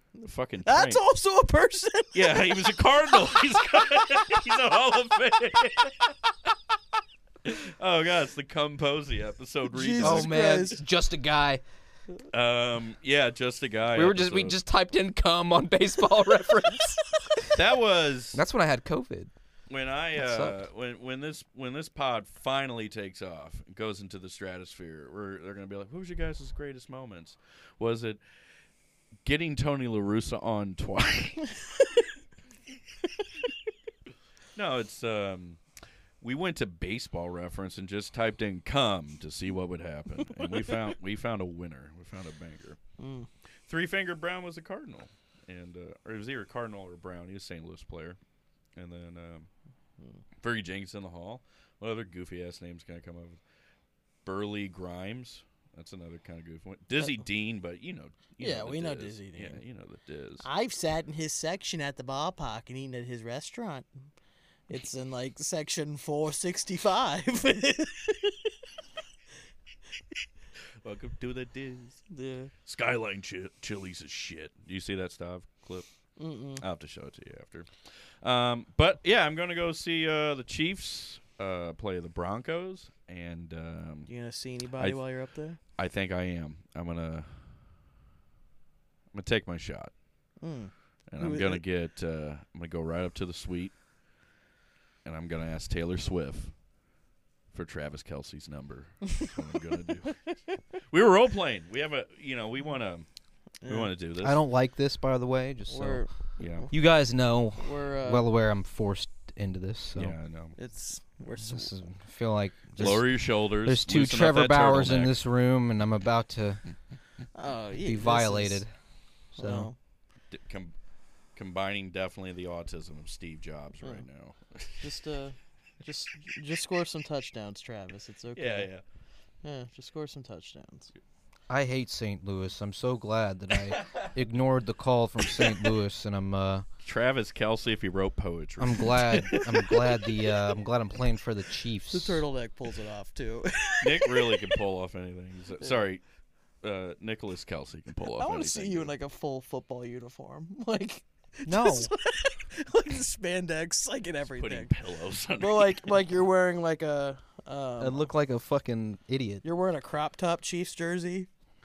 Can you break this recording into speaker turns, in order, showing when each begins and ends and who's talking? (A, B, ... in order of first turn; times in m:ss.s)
0:00.2-0:02.8 A
0:00.2-0:01.0 B
0:02.1-0:06.1 B
0:07.4-0:10.4 B
0:09.7-0:10.8 A
0:10.0-0:11.6 C
0:12.3-0:14.6 B
0:13.9-0:17.5 C
0:17.5-0:18.4 B
0:18.3-0:19.3 C
0:19.7-0:28.2 B
0:20.2-0:20.6 C
0:29.2-0:31.5 B
0:34.5-0:35.6 B
0:36.2-0:42.8 B
0:43.0-0:43.3 A
0:43.7-0:48.2 B
0:48.8-0:49.5 B
0:50.4-0:53.4 B
0:54.2-1:00.5 B
0:58.4-0:59.6 A
1:00.4-1:03.9 A
1:04.7-1:08.5 A
1:10.8-1:12.1 B
1:12.1-1:12.5 A
1:12.6-1:15.8 B
1:16.2-1:16.6 A
1:16.6-1:17.7 B
1:18.2-1:24.1 B
1:24.1-1:25.6 A
1:25.7-1:27.5 B
1:29.1-1:29.9 B
1:30.4-1:31.6 A
1:31.1-1:33.7 B
1:35.0-1:36.5 B
1:37.5-1:40.2 B
1:40.9-1:43.0 B
1:43.6-1:43.9 A
1:43.6-1:44.4 B
1:44.2-1:46.0 C
1:45.7-1:46.7 A
1:46.4-1:46.7 B
1:46.7-1:50.1 C
1:47.6-1:48.3 A
1:50.0-1:50.6 B
1:50.6-1:51.7 A
1:51.4-1:56.6 C
1:52.8-1:55.1 B
1:57.3-1:58.6 A
1:57.8-1:58.7 C
1:59.4-1:59.7 C
1:59.4-1:59.7 A
2:00.3-2:00.7 B
2:01.3-2:04.9 B
2:04.8-2:08.7 A
2:08.3-2:08.8 B
2:09.4-2:10.9 A
2:11.5-2:16.6 C
2:13.7-2:14.1 B
2:16.8-2:19.5 B
2:18.6-2:22.2 C
2:21.9-2:24.5 A
2:23.8-2:26.0 B
2:26.6-2:28.9 B
2:28.2-2:34.7 A
2:31.4-2:31.9 C
2:34.4-2:35.9 B
2:35.4-2:38.1 A
2:37.8-2:39.4 C
2:39.4-2:41.3 A